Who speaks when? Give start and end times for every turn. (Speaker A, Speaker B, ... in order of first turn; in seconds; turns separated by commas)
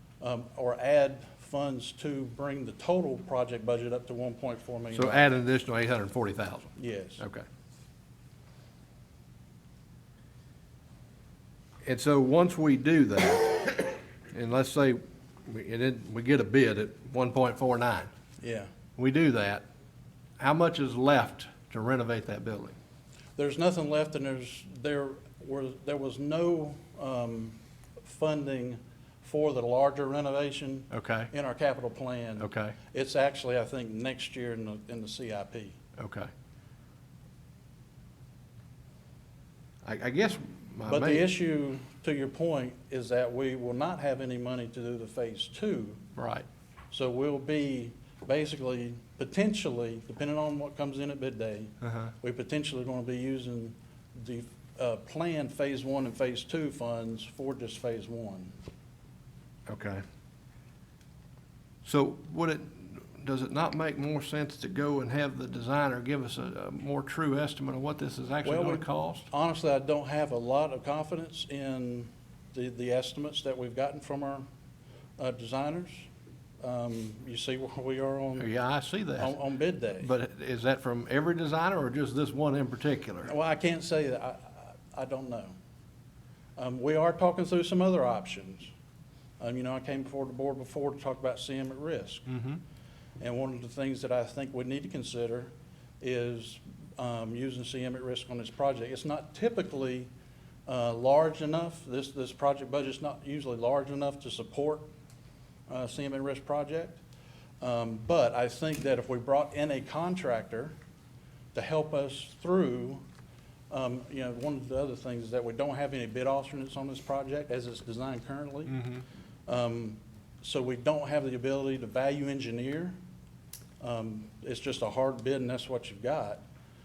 Speaker A: 0.2-5.2, Speaker B: 4.9-7.4, Speaker A: 6.8-7.2, Speaker B: 11.8-18.1, Speaker A: 18.4-18.7, Speaker B: 19.0-19.6, Speaker B: 20.4-22.8, Speaker A: 23.4-35.8, Speaker B: 30.9-31.3, Speaker B: 32.4-32.8, Speaker B: 36.0-36.3, Speaker B: 39.8-41.3, Speaker A: 40.9-46.0, Speaker B: 46.2-46.5, Speaker A: 46.9-58.5, Speaker B: 51.8-52.1, Speaker B: 59.7-60.0, Speaker B: 61.9-69.3, Speaker A: 68.4-74.5, Speaker A: 75.2-76.1, Speaker A: 76.6-78.5, Speaker B: 78.4-79.4, Speaker A: 79.2-80.1, Speaker B: 80.0-83.3, Speaker A: 83.3-85.5, Speaker A: 86.6-88.7, Speaker A: 89.4-92.3, Speaker B: 92.3-92.6, Speaker A: 93.2-100.1, Speaker A: 100.7-104.9, Speaker A: 105.7-107.0, Speaker A: 107.6-110.7, Speaker A: 111.5-113.0, Speaker A: 113.7-118.8, Speaker B: 118.7-119.0, Speaker A: 119.5-123.0, Speaker A: 123.8-126.4